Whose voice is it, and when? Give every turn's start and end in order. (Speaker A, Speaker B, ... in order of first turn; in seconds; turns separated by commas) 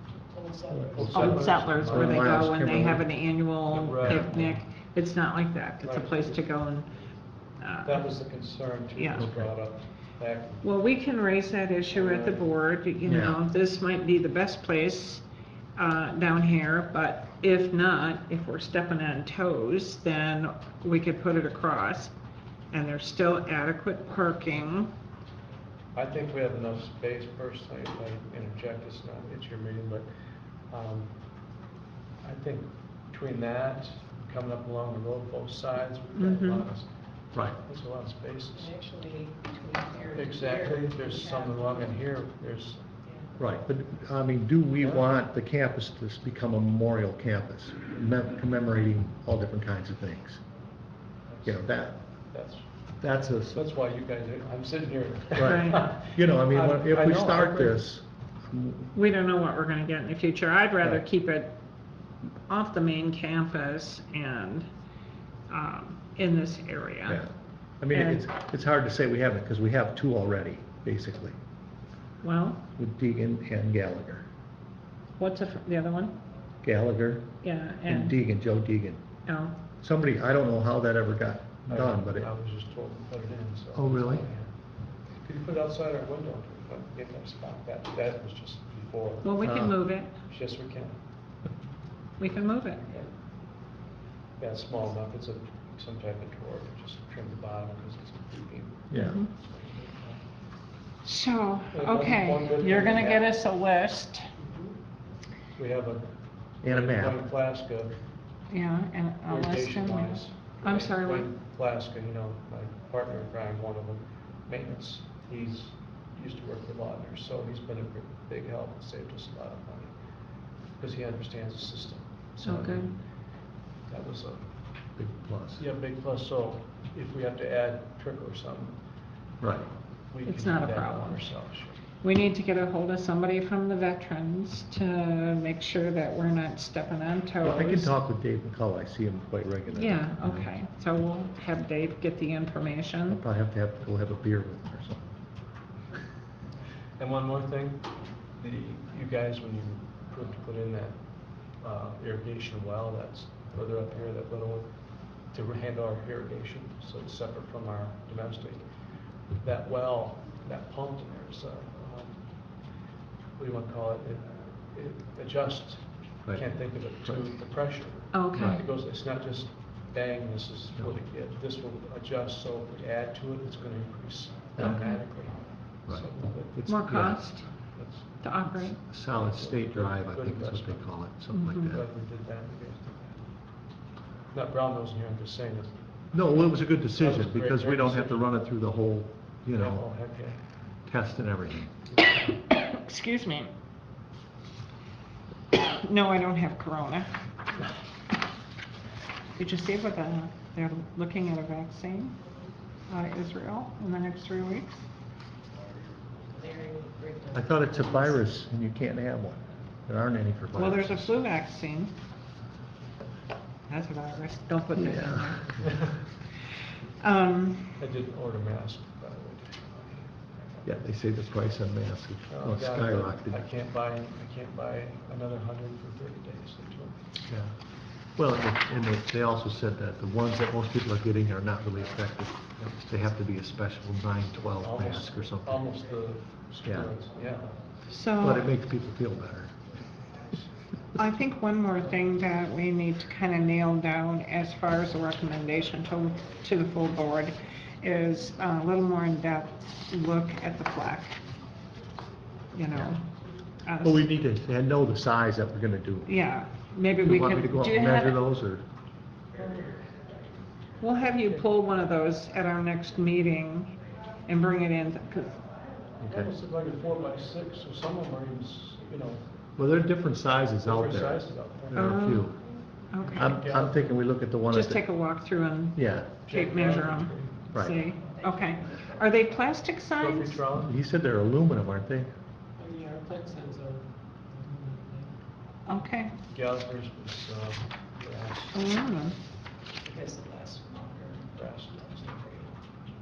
Speaker A: 0.3-1.3, Speaker B: 0.7-3.1, Speaker C: 0.9-2.5, Speaker D: 1.0-6.9, Speaker C: 3.7-4.6, Speaker B: 4.1-4.4, Speaker C: 5.8-6.4, Speaker D: 7.6-8.1, Speaker C: 7.8-10.7, Speaker D: 8.9-9.3, Speaker B: 9.2-9.5, Speaker D: 10.6-15.2, Speaker C: 11.9-12.5, Speaker B: 13.0-13.4, Speaker D: 15.8-22.1, Speaker D: 22.7-24.9, Speaker C: 25.9-30.1, Speaker C: 30.7-31.1, Speaker C: 32.2-38.8, Speaker D: 36.1-36.6, Speaker A: 38.6-41.9, Speaker C: 40.1-42.8, Speaker B: 43.4-50.4, Speaker C: 44.8-45.1, Speaker C: 51.3-51.6, Speaker B: 51.4-52.0, Speaker C: 52.3-52.7, Speaker B: 53.0-53.6, Speaker C: 53.4-57.8, Speaker B: 55.3-58.9, Speaker D: 55.4-55.8, Speaker D: 58.9-61.5, Speaker D: 62.5-64.7, Speaker D: 65.5-67.2, Speaker B: 67.1-71.3, Speaker D: 67.9-68.2, Speaker D: 72.2-72.6, Speaker B: 72.8-74.2, Speaker D: 75.2-76.2, Speaker B: 76.6-77.3, Speaker D: 77.4-78.2, Speaker B: 77.9-79.0, Speaker D: 79.3-79.6, Speaker B: 79.8-82.3, Speaker C: 81.7-84.5, Speaker B: 83.7-84.3, Speaker C: 85.2-89.6, Speaker D: 89.2-90.1, Speaker B: 89.4-89.8, Speaker C: 90.3-91.0, Speaker D: 92.2-92.9, Speaker C: 94.4-100.2, Speaker B: 98.9-99.2, Speaker D: 98.9-99.3, Speaker D: 101.0-104.3, Speaker C: 101.7-103.3, Speaker C: 105.5-107.9, Speaker B: 106.6-107.2, Speaker D: 108.5-111.3, Speaker C: 109.2-119.9, Speaker C: 120.8-123.0, Speaker D: 122.4-122.9, Speaker B: 122.4-122.8, Speaker C: 123.9-124.4, Speaker B: 125.0-125.6, Speaker C: 125.6-128.8, Speaker B: 129.4-129.7, Speaker C: 130.1-131.8, Speaker D: 130.2-131.3, Speaker D: 132.0-137.9, Speaker B: 137.4-140.5, Speaker D: 139.7-143.2, Speaker B: 143.1-145.1, Speaker C: 147.0-151.0, Speaker C: 151.6-154.7, Speaker C: 155.3-158.6, Speaker C: 159.4-162.2, Speaker C: 163.4-176.7, Speaker D: 168.1-168.6, Speaker B: 168.4-168.6, Speaker B: 174.6-174.8, Speaker D: 174.6-175.0, Speaker B: 175.9-177.3, Speaker D: 176.7-177.5, Speaker C: 177.7-178.2, Speaker D: 178.2-178.8, Speaker B: 178.6-181.8, Speaker C: 179.2-180.8, Speaker D: 181.3-181.8, Speaker C: 181.6-183.3, Speaker C: 184.3-185.8, Speaker B: 186.1-189.8, Speaker C: 186.9-188.3, Speaker C: 189.5-190.4, Speaker B: 190.9-191.8, Speaker C: 191.9-192.3, Speaker D: 192.4-193.5, Speaker D: 195.5-197.1, Speaker D: 199.4-202.2, Speaker D: 202.9-204.8, Speaker A: 206.3-208.2, Speaker B: 207.3-211.1, Speaker D: 210.6-211.9, Speaker D: 213.7-215.7, Speaker B: 214.8-215.7, Speaker C: 215.6-215.9, Speaker D: 217.0-217.8, Speaker C: 217.8-220.6, Speaker B: 220.6-223.4, Speaker C: 222.3-227.1, Speaker B: 228.2-235.6, Speaker C: 234.6-237.6, Speaker B: 236.6-236.9, Speaker D: 237.9-238.5, Speaker B: 238.2-239.5, Speaker D: 240.9-251.2, Speaker D: 252.5-253.0, Speaker D: 253.7-254.0, Speaker B: 253.8-256.1, Speaker D: 256.1-258.2, Speaker B: 257.0-258.6, Speaker D: 260.8-265.4, Speaker B: 266.0-266.3, Speaker C: 266.1-269.3, Speaker B: 269.6-272.4, Speaker C: 270.6-272.2, Speaker D: 271.7-272.3, Speaker D: 272.9-273.3, Speaker C: 273.0-274.0, Speaker B: 273.1-274.8, Speaker D: 274.5-280.4, Speaker B: 275.7-276.1, Speaker C: 276.2-277.4, Speaker B: 277.5-277.8, Speaker C: 279.9-280.7, Speaker B: 280.6-282.1, Speaker A: 282.6-285.1, Speaker D: 285.7-286.1, Speaker C: 286.3-288.8, Speaker D: 288.5-289.1, Speaker A: 289.8-291.3, Speaker C: 291.3-292.2, Speaker A: 291.9-292.5